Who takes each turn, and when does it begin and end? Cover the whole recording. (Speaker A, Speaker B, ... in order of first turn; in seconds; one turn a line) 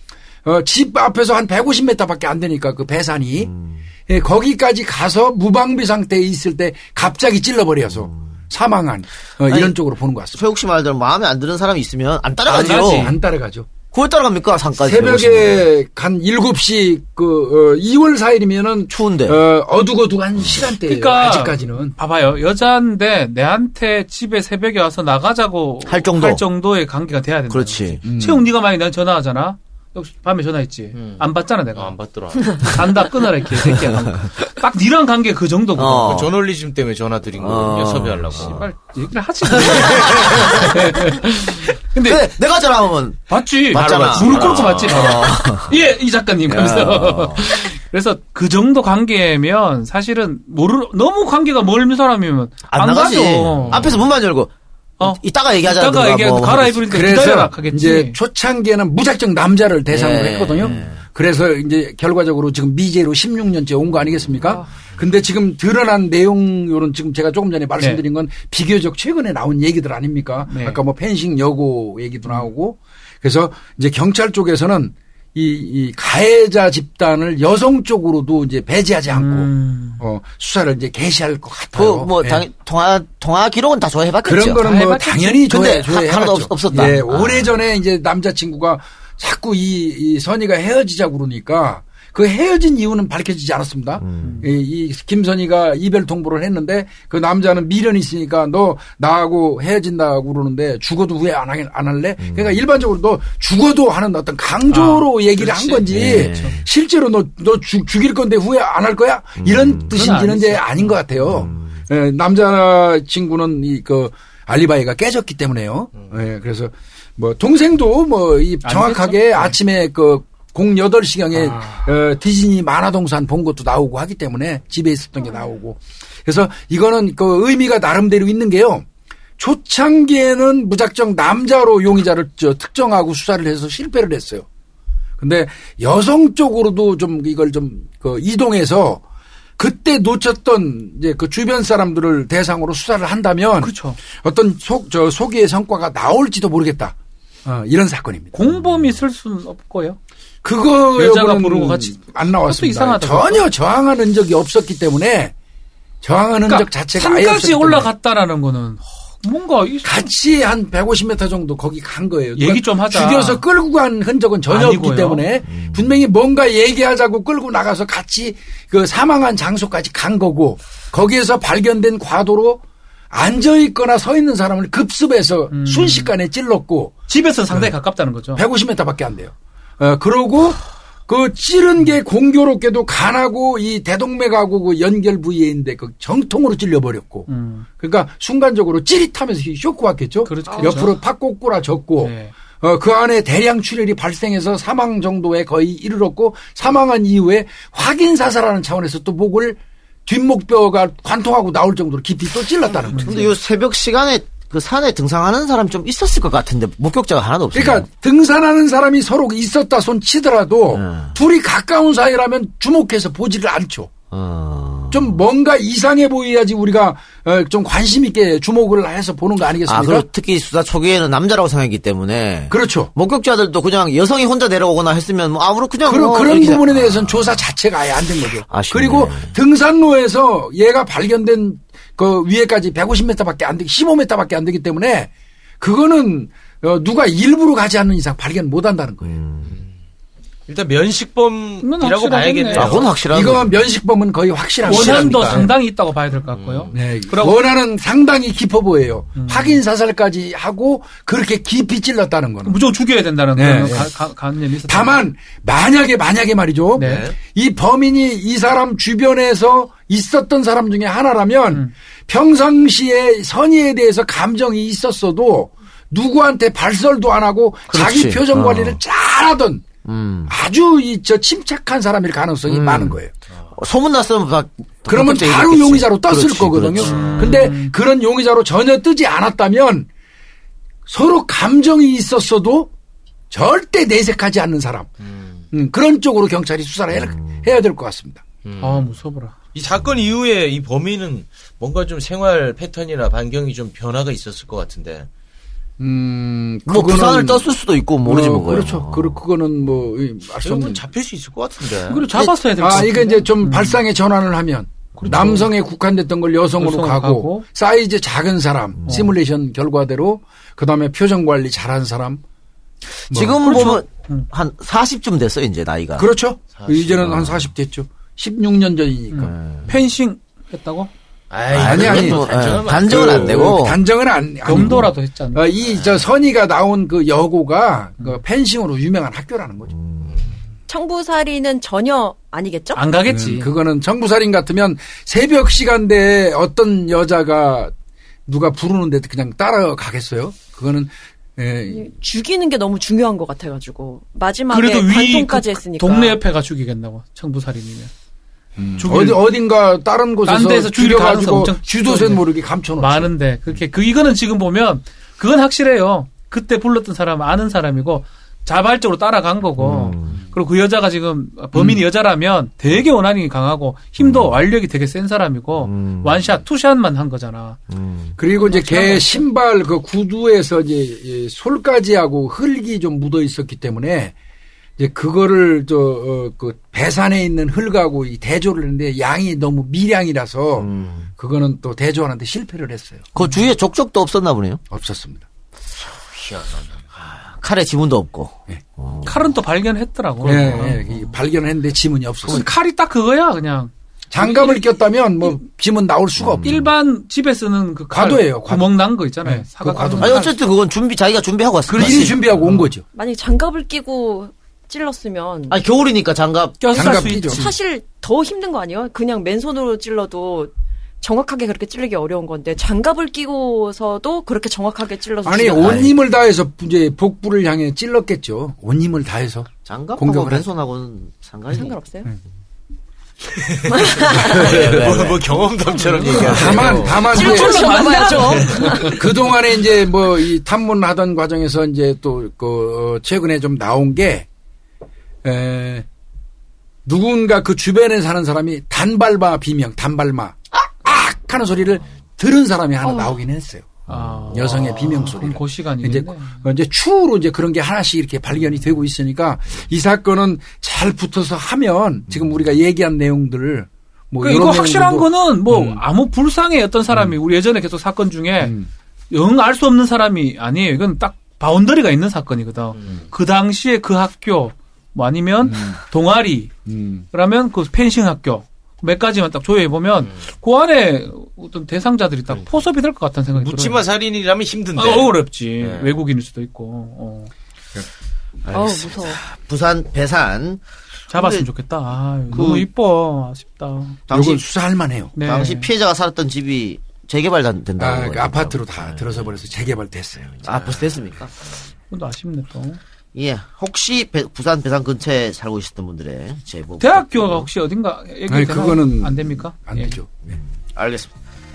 Speaker A: 0.4-3.5
Speaker B: 3.4-3.8
Speaker A: 4.1-10.4
Speaker B: 9.5-9.8
Speaker B: 10.3-13.2
Speaker C: 12.4-13.2
Speaker A: 12.6-13.7
Speaker B: 13.9-15.7
Speaker A: 14.8-21.9
Speaker B: 18.9-19.4
Speaker C: 20.8-32.0
Speaker B: 25.9-26.4
Speaker B: 27.5-28.0
Speaker A: 28.0-28.5
Speaker D: 30.9-32.7
Speaker C: 32.5-36.2
Speaker B: 35.7-36.3
Speaker D: 36.0-38.7
Speaker B: 37.4-38.6
Speaker C: 38.3-42.3
Speaker B: 39.5-41.4
Speaker D: 39.8-40.5
Speaker B: 42.0-45.8
Speaker C: 43.3-54.0
Speaker D: 43.7-45.3
Speaker B: 46.5-47.6
Speaker B: 52.7-56.9
Speaker D: 53.6-53.9
Speaker C: 55.0-58.2
Speaker A: 56.9-82.4
Speaker B: 59.9-61.0
Speaker C: 70.5-70.8
Speaker C: 79.1-80.0
Speaker B: 81.7-84.8
Speaker A: 84.2-128.8
Speaker C: 84.5-85.4
Speaker B: 85.5-87.5
Speaker B: 94.0-94.3
Speaker C: 94.2-94.5
Speaker B: 102.2-102.6
Speaker C: 104.7-106.6
Speaker B: 105.9-106.6
Speaker B: 109.4-109.9
Speaker C: 109.9-111.0
Speaker B: 111.2-111.8
Speaker C: 118.6-119.6
Speaker A: 129.4-134.4
Speaker A: 135.2-139.0
Speaker A: 139.6-148.3
Speaker C: 143.6-144.0
Speaker C: 148.3-150.0
Speaker A: 150.4-155.3
Speaker C: 150.9-153.5
Speaker A: 156.0-157.9
Speaker C: 156.5-160.1
Speaker A: 159.8-176.9
Speaker C: 162.3-163.4
Speaker C: 164.5-165.2
Speaker B: 165.5-166.0
Speaker C: 175.5-176.2
Speaker C: 177.1-178.4
Speaker A: 178.3-203.3
Speaker C: 187.3-187.7
Speaker C: 190.2-191.0
Speaker E: 190.5-190.8
Speaker C: 192.0-192.3
Speaker B: 202.9-207.9
Speaker C: 202.9-203.3
Speaker A: 207.5-213.9
Speaker B: 210.7-211.2
Speaker B: 214.1-215.2
Speaker A: 214.9-220.0
Speaker B: 219.6-227.3
Speaker A: 222.5-222.9
Speaker A: 225.8-239.2
Speaker B: 228.5-229.3
Speaker B: 239.0-239.6
Speaker D: 239.4-239.7
Speaker D: 240.5-243.0
Speaker C: 241.6-242.9
Speaker B: 242.5-243.5
Speaker A: 243.1-245.5
Speaker D: 244.6-245.4
Speaker C: 244.6-247.4
Speaker D: 246.3-246.8
Speaker A: 246.7-252.5
Speaker C: 249.2-249.6
Speaker C: 252.4-255.0
Speaker A: 253.3-253.9
Speaker A: 254.7-269.7
Speaker C: 256.7-257.1
Speaker D: 256.8-257.1
Speaker B: 267.7-268.8
Speaker B: 269.8-270.3
Speaker A: 270.3-273.1
Speaker B: 272.5-273.0
Speaker B: 273.5-277.5
Speaker A: 274.9-279.9
Speaker C: 276.8-277.7
Speaker D: 276.9-277.3
Speaker A: 280.9-282.7
Speaker A: 283.3-284.9
Speaker D: 285.0-285.4
Speaker A: 285.5-288.2
Speaker B: 286.9-287.5
Speaker D: 288.4-288.9
Speaker C: 288.6-289.3
Speaker D: 289.5-295.1
Speaker A: 295.8-297.5
Speaker B: 296.6-299.2
Speaker A: 298.0-300.8
Speaker D: 300.4-302.1
Speaker C: 301.9-303.8
Speaker A: 302.6-312.2
Speaker C: 305.0-305.5
Speaker B: 305.1-305.4
Speaker C: 306.6-307.4
Speaker B: 308.8-309.1
Speaker C: 308.9-309.1
Speaker A: 313.1-313.4
Speaker B: 313.1-316.1
Speaker C: 313.4-314.3
Speaker A: 316.0-319.3
Speaker D: 316.5-317.1
Speaker B: 317.0-317.5
Speaker C: 319.1-320.9
Speaker B: 319.3-319.7
Speaker D: 321.3-323.6
Speaker B: 321.5-323.8
Speaker A: 321.6-329.7
Speaker C: 324.4-325.5
Speaker D: 325.7-326.0
Speaker B: 329.7-330.1
Speaker D: 330.1-330.4
Speaker E: 330.7-332.8
Speaker C: 332.7-333.5
Speaker A: 333.1-337.7
Speaker A: 338.2-341.9
Speaker E: 341.7-346.2
Speaker C: 344.5-347.9
Speaker A: 348.6-353.1
Speaker C: 348.8-349.2
Speaker C: 350.2-352.2
Speaker C: 352.8-367.6
Speaker B: 359.6-360.2
Speaker A: 361.5-361.8
Speaker B: 364.0-364.4
Speaker B: 365.6-366.4
Speaker B: 367.7-368.2
Speaker A: 368.2-374.1
Speaker C: 368.4-369.2
Speaker A: 374.8-383.1
Speaker B: 380.6-381.1
Speaker B: 383.1-384.6
Speaker A: 384.7-385.2
Speaker D: 386.1-386.8
Speaker B: 387.0-389.3
Speaker C: 389.0-390.8
Speaker A: 390.2-392.5
Speaker B: 390.3-390.9
Speaker C: 392.3-394.7
Speaker A: 394.1-396.7
Speaker B: 396.2-396.7
Speaker C: 396.4-400.3
Speaker A: 397.9-400.3
Speaker B: 400.0-402.2
Speaker C: 401.7-402.7
Speaker A: 401.7-402.8
Speaker E: 402.9-405.6
Speaker B: 405.5-407.3
Speaker C: 406.6-407.5
Speaker A: 406.7-407.5
Speaker E: 407.3-415.9
Speaker A: 415.2-420.4
Speaker B: 415.6-415.9
Speaker B: 419.6-421.7
Speaker E: 421.5-422.1
Speaker D: 423.3-427.2
Speaker E: 423.6-424.5
Speaker B: 423.9-425.3
Speaker A: 424.5-424.9
Speaker C: 425.8-429.0
Speaker B: 425.9-427.0
Speaker A: 426.1-427.7
Speaker E: 427.1-429.1
Speaker A: 428.9-434.3
Speaker A: 435.2-435.9
Speaker A: 436.8-455.8
Speaker E: 442.8-443.1
Speaker C: 443.9-446.4
Speaker C: 454.2-458.6
Speaker A: 458.4-458.7
Speaker C: 459.1-466.5
Speaker A: 465.4-465.8
Speaker A: 466.6-467.0
Speaker C: 467.1-473.9
Speaker D: 473.3-475.9
Speaker C: 474.8-477.3
Speaker B: 478.4-481.5
Speaker E: 478.5-479.2
Speaker C: 481.1-484.0
Speaker B: 482.3-482.6
Speaker B: 484.1-484.4
Speaker A: 484.1-485.1
Speaker C: 485.1-485.7
Speaker B: 485.2-489.3
Speaker A: 487.8-490.6
Speaker B: 490.4-491.3
Speaker D: 490.4-490.9
Speaker C: 491.9-492.8
Speaker B: 493.1-497.5
Speaker C: 496.8-500.0
Speaker A: 498.3-500.4
Speaker B: 500.7-501.1